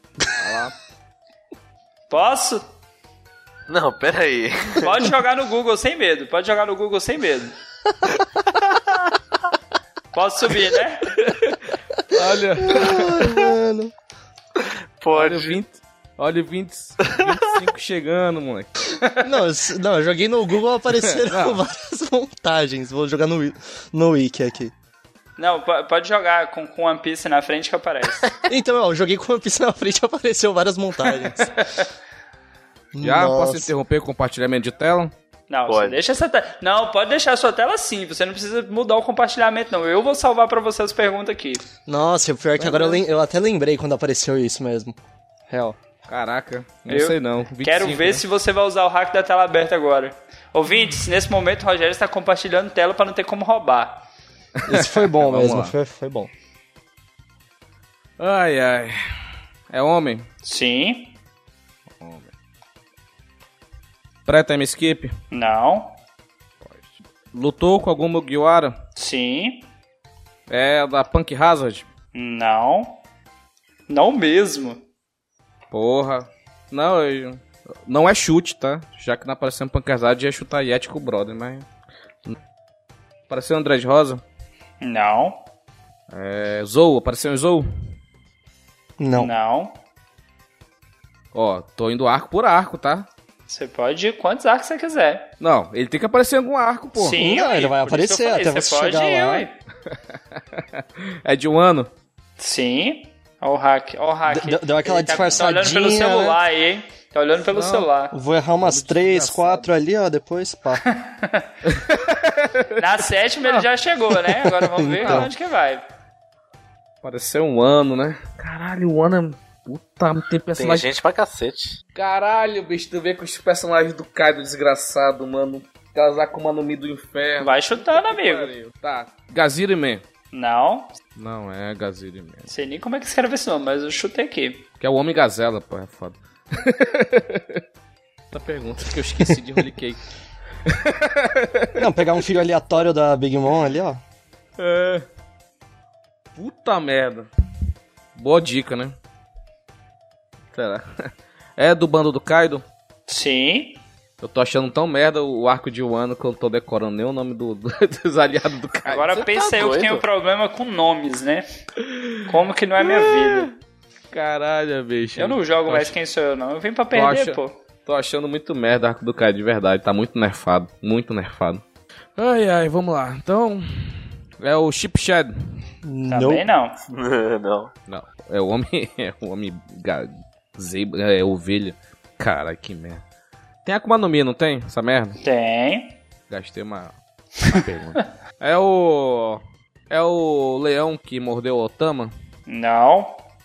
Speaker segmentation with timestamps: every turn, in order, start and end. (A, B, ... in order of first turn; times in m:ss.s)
0:00.3-0:00.7 A
0:02.1-0:02.6 B
0:03.7-0:05.0 C
0:04.8-0:07.5 B
0:10.1-0:11.1 B
0:11.2-0:11.6 A
0:12.1-0:13.4 A
0:12.6-0:13.9 D
0:14.6-0:15.6 C
0:15.1-0:18.9 A
0:19.2-0:24.7 D
0:21.0-0:21.6 A
0:25.4-0:28.3 B
0:28.5-0:31.5 D
0:32.9-0:33.7 D
0:33.0-0:35.1 A
0:35.5-0:41.6 B
0:35.7-0:36.0 C
0:41.8-0:45.0 D
0:42.6-0:43.0 A
0:45.5-0:45.8 D
0:46.1-0:48.2 A
0:46.9-0:54.0 B
0:54.6-0:55.7 A
0:54.6-0:56.3 D
0:58.2-0:59.0 A
0:59.7-1:00.3 A
1:00.4-1:01.1 B
1:02.0-1:02.3 A
1:04.2-1:05.1 A
1:05.3-1:06.0 B
1:06.6-1:08.8 A
1:09.0-1:09.7 B
1:10.5-1:11.8 A
1:12.1-1:13.0 B
1:13.9-1:14.8 B
1:15.7-1:21.7 A
1:23.3-1:24.2 A
1:24.8-1:25.4 B
1:26.1-1:27.6 A
1:29.0-1:29.3 D
1:29.2-1:29.8 B
1:31.3-1:33.1 A
1:33.5-1:35.3 B
1:35.4-1:37.2 A
1:37.0-1:39.6 B
1:37.1-1:39.5 D
1:40.6-1:41.9 A
1:42.4-1:48.1 B
1:44.3-1:46.4 D
1:47.5-1:47.9 A
1:48.1-1:50.8 D
1:48.6-1:49.7 A
1:50.8-1:51.5 B
1:51.6-1:53.6 A
1:52.8-1:55.8 B
1:54.8-1:55.3 D
1:55.0-1:55.3 A
1:57.0-2:00.9 A
2:00.6-2:01.8 C
2:01.9-2:10.0 A
2:07.4-2:08.5 B
2:10.3-2:10.9 B
2:11.2-2:12.5 A
2:12.5-2:14.6 B
2:14.8-2:17.6 A
2:18.3-2:20.0 A
2:20.6-2:21.8 A
2:21.8-2:24.0 D
2:24.6-2:25.0 A
2:26.4-2:27.3 A
2:28.2-2:28.9 A
2:30.5-2:32.6 A
2:33.1-2:33.8 B
2:34.2-2:39.1 A
2:38.9-2:41.4 B
2:39.1-2:40.0 C
2:41.8-2:42.2 A
2:42.2-2:43.5 B
2:42.8-2:43.5 A
2:44.1-2:45.9 A
2:45.2-2:47.5 B
2:46.9-2:51.6 A
2:52.2-2:55.3 A
2:55.8-2:56.4 D
2:56.1-2:56.8 B
2:56.9-2:57.7 C
2:57.9-3:03.0 A
3:03.6-3:05.2 A
3:05.2-3:06.0 B
3:06.3-3:12.1 A
3:12.5-3:13.2 B